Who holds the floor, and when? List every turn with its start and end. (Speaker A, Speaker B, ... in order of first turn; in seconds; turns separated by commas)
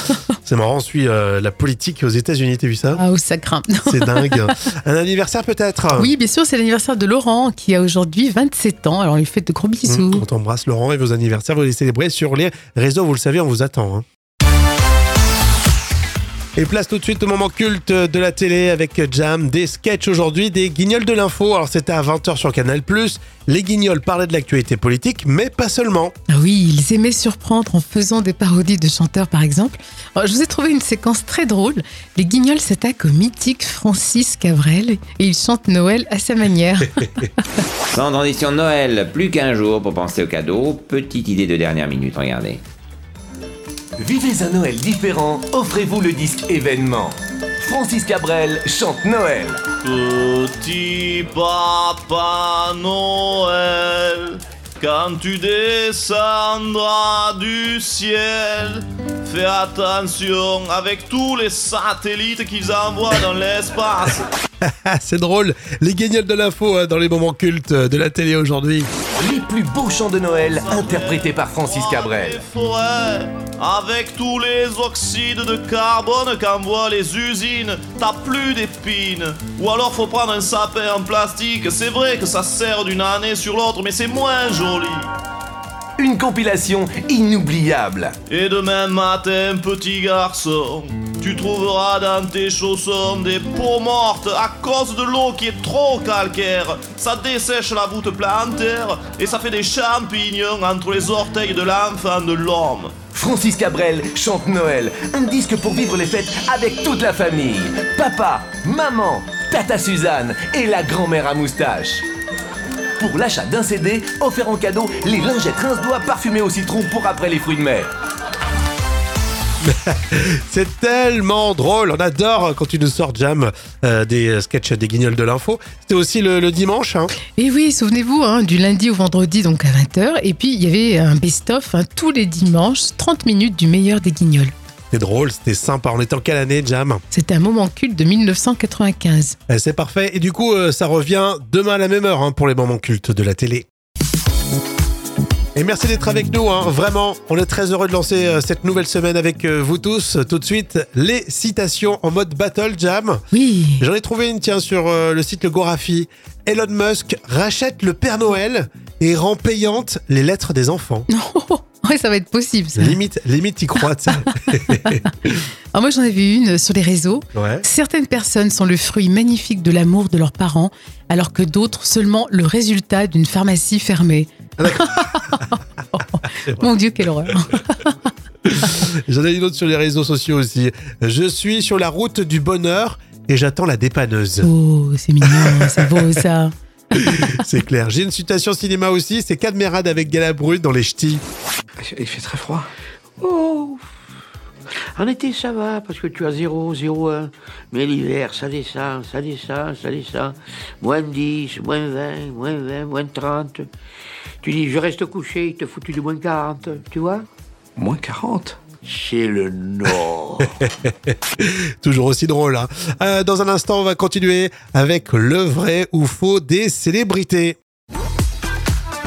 Speaker A: 0.4-3.0, Speaker B: 3.0-4.4, Speaker A: 3.9-6.1, Speaker B: 6.0-10.2, Speaker A: 9.9-14.1, Speaker A: 16.6-26.1, Speaker B: 26.3-37.3, Speaker C: 37.9-42.6, Speaker D: 44.0-49.6, Speaker E: 49.8-64.2, Speaker A: 64.6-68.9, Speaker D: 69.2-72.4, Speaker E: 70.3-85.1, Speaker D: 86.0-88.2, Speaker E: 88.3-102.9, Speaker D: 103.1-112.1, Speaker D: 113.0-117.9, Speaker A: 119.6-127.1, Speaker B: 127.3-134.5, Speaker A: 134.9-137.0, Speaker B: 137.1-139.4, Speaker A: 139.5-143.7, Speaker A: 145.6-153.2, Speaker B: 153.3-153.8, Speaker A: 153.8-161.1, Speaker B: 161.1-163.0, Speaker A: 162.8-165.3, Speaker B: 164.7-165.1, Speaker B: 165.7-177.9, Speaker A: 167.3-167.7, Speaker A: 174.6-175.3, Speaker A: 178.4-184.5, Speaker B: 184.4-186.5, Speaker A: 185.2-185.9, Speaker A: 186.9-191.2, Speaker F: 191.8-192.7, Speaker F: 193.2-193.7, Speaker G: 195.0-203.7, Speaker G: 204.4-207.2, Speaker F: 207.8-208.6, Speaker G: 208.8-210.5, Speaker A: 210.5-217.6